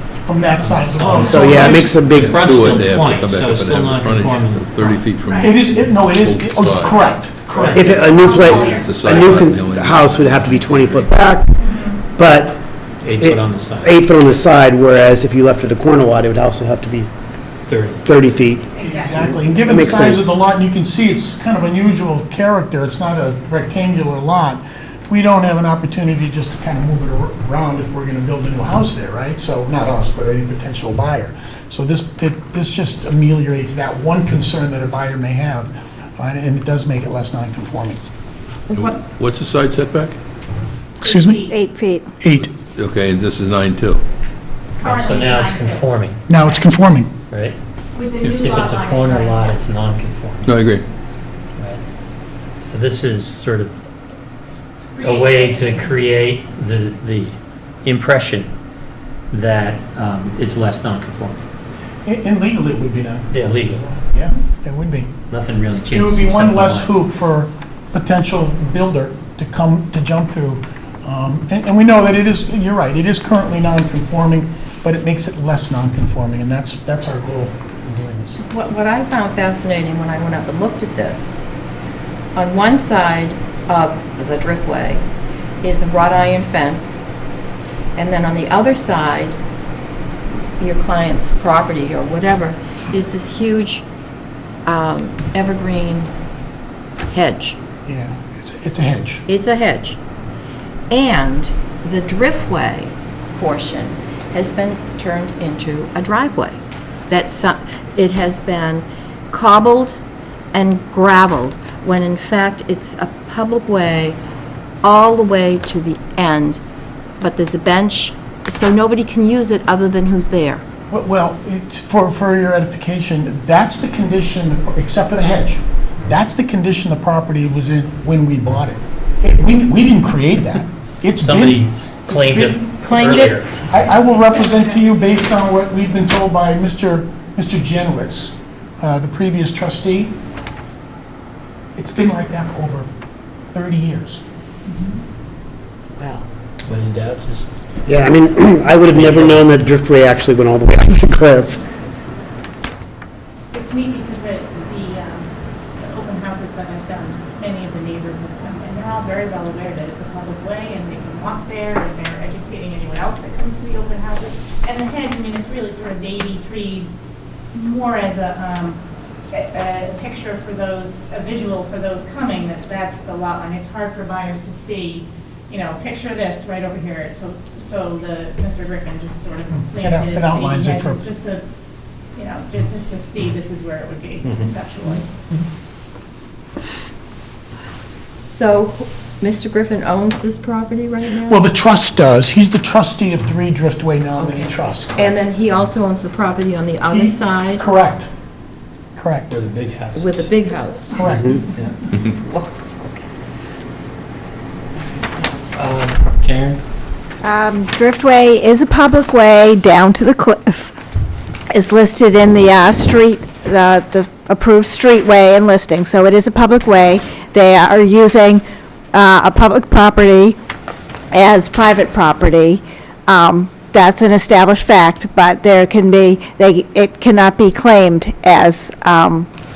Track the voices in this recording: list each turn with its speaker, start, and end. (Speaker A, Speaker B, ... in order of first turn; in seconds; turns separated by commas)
Speaker A: 0.2-1.9, Speaker B: 0.6-5.0, Speaker C: 1.2-2.4, Speaker D: 1.6-7.1, Speaker E: 5.2-5.5, Speaker A: 5.4-7.9, Speaker B: 7.5-7.8, Speaker D: 7.7-11.2, Speaker C: 7.7-11.6, Speaker E: 8.0-9.0, Speaker E: 10.5-12.0, Speaker C: 12.2-12.6, Speaker B: 13.0-14.0, Speaker C: 13.2-17.1, Speaker B: 17.7-18.1, Speaker C: 18.1-20.3, Speaker E: 18.7-19.7, Speaker A: 18.8-38.0, Speaker D: 38.7-40.2, Speaker A: 41.0-41.5, Speaker E: 41.0-41.5, Speaker F: 41.5-42.1, Speaker A: 42.2-42.5, Speaker D: 42.4-44.0, Speaker E: 44.8-46.6, Speaker B: 44.8-46.2, Speaker A: 46.3-47.1, Speaker B: 47.3-47.6, Speaker E: 48.0-49.6, Speaker B: 48.2-50.5, Speaker D: 50.5-50.8, Speaker B: 51.6-51.8, Speaker B: 52.6-53.7, Speaker E: 55.0-56.0, Speaker B: 55.0-58.5, Speaker B: 59.3-61.4, Speaker A: 62.0-65.1, Speaker B: 63.3-63.9, Speaker B: 65.3-66.9, Speaker A: 65.9-78.4, Speaker G: 78.4-81.4, Speaker G: 82.3-85.0, Speaker G: 85.6-87.0, Speaker G: 88.0-89.4, Speaker G: 90.6-93.8, Speaker G: 94.7-96.1, Speaker G: 97.1-97.6, Speaker A: 97.8-99.2, Speaker G: 99.3-100.0, Speaker G: 100.9-110.0, Speaker G: 110.5-114.2, Speaker G: 114.8-116.6, Speaker G: 117.2-120.6, Speaker A: 120.9-140.2, Speaker B: 131.2-133.7, Speaker E: 133.9-135.3, Speaker A: 141.8-142.9, Speaker A: 143.5-144.2, Speaker G: 145.8-146.3, Speaker B: 146.6-147.5, Speaker C: 147.8-151.6, Speaker B: 148.9-149.5, Speaker E: 153.5-155.3, Speaker E: 155.8-166.9, Speaker E: 167.5-168.8, Speaker E: 169.3-181.4, Speaker A: 179.5-181.0, Speaker E: 182.1-185.0, Speaker G: 188.1-191.4, Speaker A: 191.3-195.2, Speaker G: 194.2-197.6, Speaker A: 196.9-198.1, Speaker A: 199.0-199.4, Speaker B: 199.3-201.8, Speaker G: 199.9-201.4, Speaker A: 200.9-201.3, Speaker G: 201.9-203.0, Speaker B: 205.5-206.6, Speaker F: 207.2-210.7, Speaker F: 211.5-220.4, Speaker F: 221.1-229.3